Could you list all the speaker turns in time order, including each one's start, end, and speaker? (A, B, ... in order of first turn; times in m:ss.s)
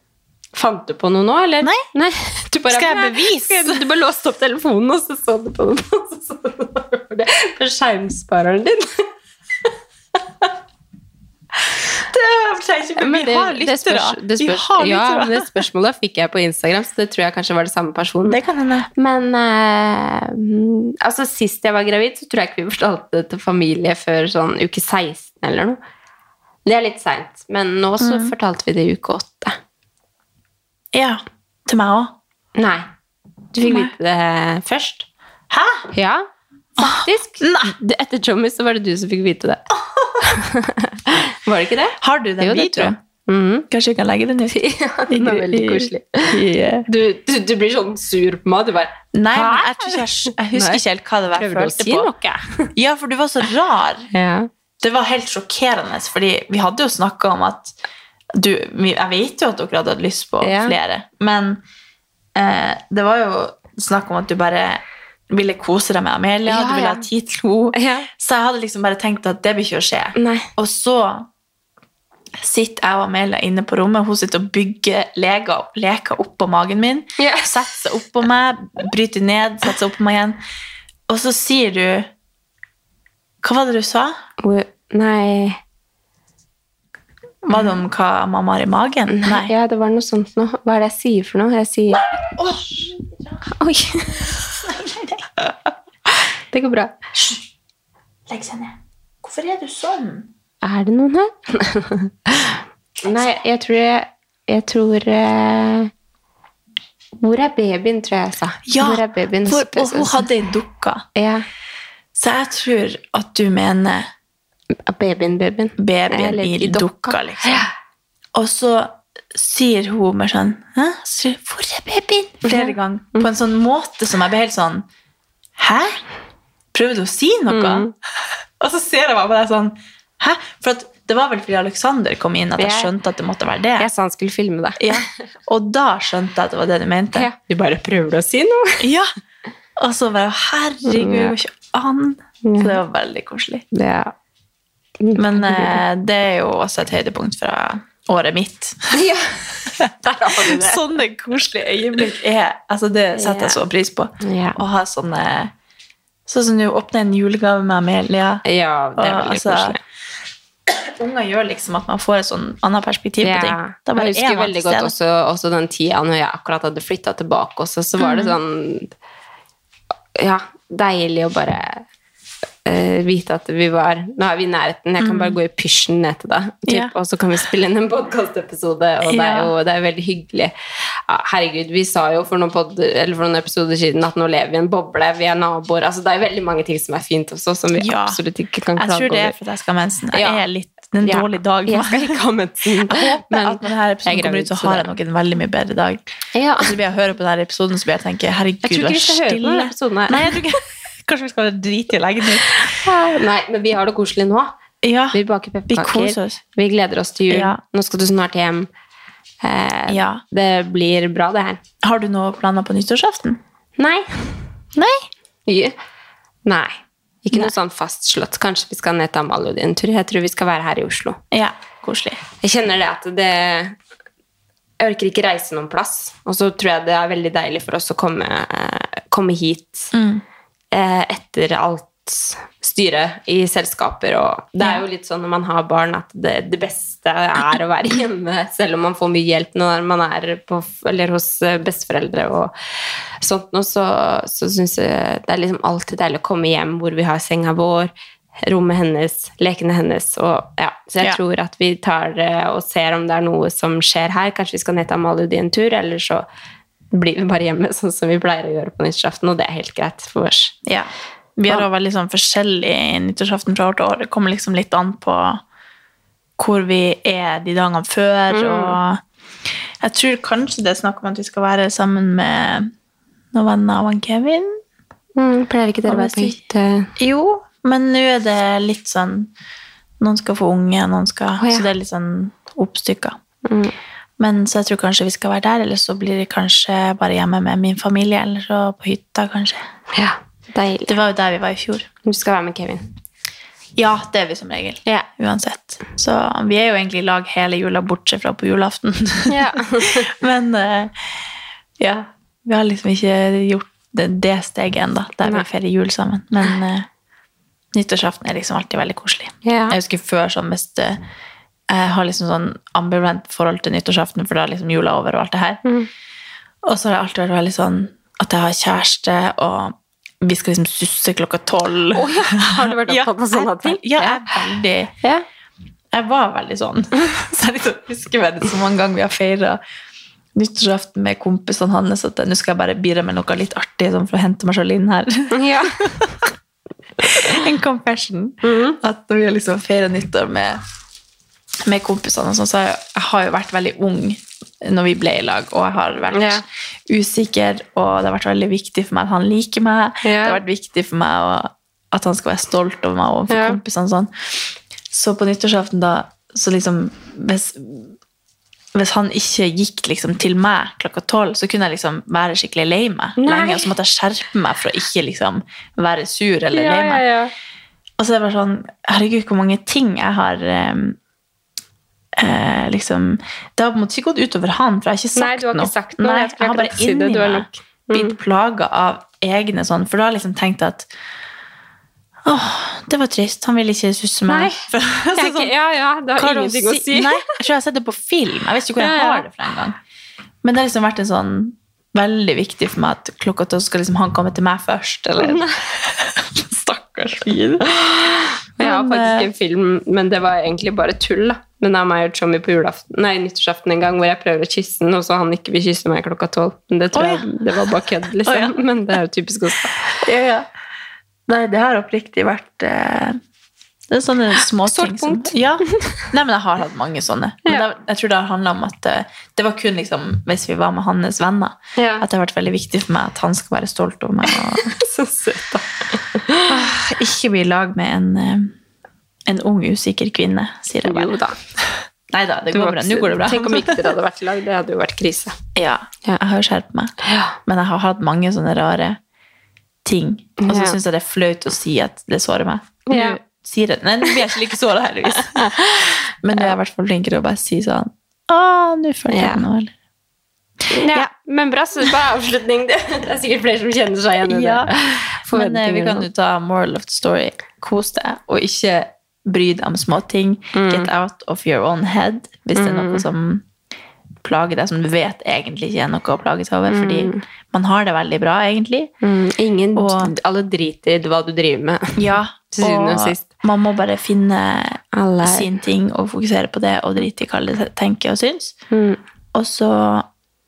0:00.5-0:09.1 A
0:02.7-0:03.8 B
0:12.0-0:15.5 B
0:13.0-0:18.4 A
0:18.3-0:18.9 B
0:19.0-0:25.8 A
0:26.6-0:29.6 A
0:28.0-0:28.3 B
0:30.9-0:32.2 B
0:32.6-0:32.8 A
0:33.5-0:35.1 A
0:33.6-0:33.9 B
0:35.5-0:35.9 B
0:35.9-0:39.6 A
0:36.8-0:37.7 B
0:39.9-0:40.2 B
0:40.2-0:43.7 A
0:42.0-0:43.0 B
0:43.7-0:44.6 B
0:44.5-0:46.4 A
0:45.1-0:46.8 B
0:46.9-0:50.8 A
0:49.1-0:52.1 B
0:51.3-0:52.7 A
0:52.7-0:54.1 B
0:54.1-0:54.5 A
0:54.8-0:57.8 B
0:58.3-1:01.6 B
1:00.4-1:00.8 A
1:02.3-1:11.3 B
1:06.4-1:07.0 A
1:07.7-1:08.1 A
1:10.1-1:10.5 A
1:12.4-1:20.4 B
1:17.2-1:17.8 A
1:21.1-1:22.1 B
1:23.4-1:24.2 B
1:24.4-1:25.6 A
1:27.4-1:29.5 B
1:29.1-1:32.7 A
1:32.3-1:33.4 B
1:33.5-1:34.4 A
1:34.2-1:35.7 B
1:36.5-1:36.9 A
1:37.1-1:37.4 B
1:38.3-1:40.3 B
1:40.6-1:45.9 A
1:43.0-1:43.4 B
1:47.2-1:50.2 A
1:48.6-1:51.0 B
1:51.2-1:51.4 A
1:52.1-1:54.1 B
1:54.8-1:57.7 A
1:55.8-1:57.6 B
1:58.3-2:04.8 B
2:02.4-2:03.3 A
2:05.6-2:06.0 B
2:06.7-2:07.9 B
2:07.5-2:07.9 A
2:08.6-2:13.9 B
2:12.6-2:12.9 A
2:13.8-2:14.9 A
2:14.8-2:17.3 B
2:17.1-2:18.8 A
2:18.8-2:19.1 B
2:19.8-2:23.6 B
2:20.8-2:21.3 A
2:22.4-2:22.8 A
2:23.7-2:24.1 A
2:25.0-2:25.8 A
2:25.2-2:29.0 B
2:28.9-2:30.8 A
2:29.8-2:35.5 B
2:33.1-2:33.6 A
2:34.2-2:34.6 A
2:36.3-2:38.4 B
2:38.4-2:39.8 A
2:39.0-2:39.8 B
2:40.7-2:44.9 B
2:43.2-2:48.9 A
2:48.0-2:48.4 B
2:50.2-2:51.8 A
2:52.6-3:00.5 A
2:55.0-2:55.4 B
2:56.7-2:56.9 B
2:59.0-2:59.5 B
3:01.1-3:09.4 A
3:07.8-3:08.2 B
3:08.8-3:12.2 B
3:10.1-3:10.4 A
3:11.0-3:14.9 A
3:12.7-3:22.8 B
3:16.3-3:16.7 A
3:18.6-3:20.4 A
3:22.6-3:24.6 A
3:24.8-3:26.4 B
3:25.1-3:28.7 A
3:27.3-3:27.6 B
3:29.4-3:31.6 A
3:29.9-3:30.2 B
3:31.8-3:33.4 B
3:33.8-3:34.4 A
3:34.7-3:35.0 B
3:35.5-3:35.7 A
3:36.4-3:41.2 A
3:41.3-3:42.2 B
3:42.4-3:43.8 A
3:44.8-3:49.9 A
3:49.9-3:50.2 B
3:50.7-4:02.5 A
3:54.6-3:54.8 B
4:03.2-4:16.2 A
4:16.9-4:20.5 A
4:20.6-4:25.4 B
4:26.4-4:29.0 B
4:28.3-4:28.8 A
4:29.8-4:32.7 B
4:33.3-4:34.6 B
4:35.2-4:36.9 A
4:35.8-4:36.4 B
4:37.0-4:39.3 B
4:40.0-4:43.2 B
4:41.4-4:41.7 A
4:43.4-4:43.7 A
4:44.2-4:49.6 B
4:49.9-4:51.0 A
4:50.8-4:51.9 B
4:52.0-4:52.9 A
4:53.8-5:01.1 B
4:59.3-5:00.1 A
5:01.8-5:06.9 B
5:07.7-5:11.0 B
5:09.4-5:09.8 A
5:11.7-5:15.6 B
5:16.6-5:24.9 B
5:21.9-5:24.2 A
5:25.9-5:29.6 B
5:30.3-5:36.3 B
5:35.3-5:35.8 A
5:37.0-5:40.6 B
5:38.4-5:38.8 A
5:41.6-5:54.1 B
5:46.1-5:46.4 A
5:50.0-5:50.4 A
5:53.3-5:53.6 A
5:54.9-5:57.9 B
5:58.7-6:07.0 B
6:03.2-6:03.7 A
6:06.5-6:07.3 A
6:08.0-6:11.0 B
6:12.2-6:20.9 B
6:15.2-6:18.2 A
6:22.2-6:25.5 B
6:24.3-6:27.4 A
6:26.2-6:29.8 B
6:28.8-6:29.3 A
6:30.4-6:39.3 B
6:35.2-6:35.6 A
6:38.6-6:50.0 A
6:46.9-6:47.4 B
6:48.1-6:48.6 B
6:50.0-6:50.5 B
6:51.3-6:53.2 B
6:53.9-7:04.8 B
6:54.6-6:55.3 A
7:01.8-7:02.0 A
7:04.7-7:06.5 A
7:06.5-7:08.5 B
7:09.3-7:11.2 B
7:10.8-7:11.4 A
7:12.1-7:13.9 B
7:12.5-7:15.4 A
7:15.6-7:16.9 B
7:17.0-7:17.4 A
7:17.4-7:19.0 B
7:19.8-7:29.7 B
7:20.4-7:20.8 A
7:22.9-7:23.2 A
7:25.2-7:26.5 A
7:29.1-7:29.4 A
7:30.7-7:36.1 A
7:30.8-7:31.1 B
7:34.2-7:43.4 B
7:40.5-7:40.9 A
7:42.6-7:43.0 A
7:44.2-7:48.9 B
7:46.7-7:47.2 A
7:49.0-7:53.2 A
7:49.7-7:50.1 B
7:52.0-7:58.6 B
7:54.9-7:55.5 A
7:58.7-7:59.0 A
7:59.3-8:00.1 B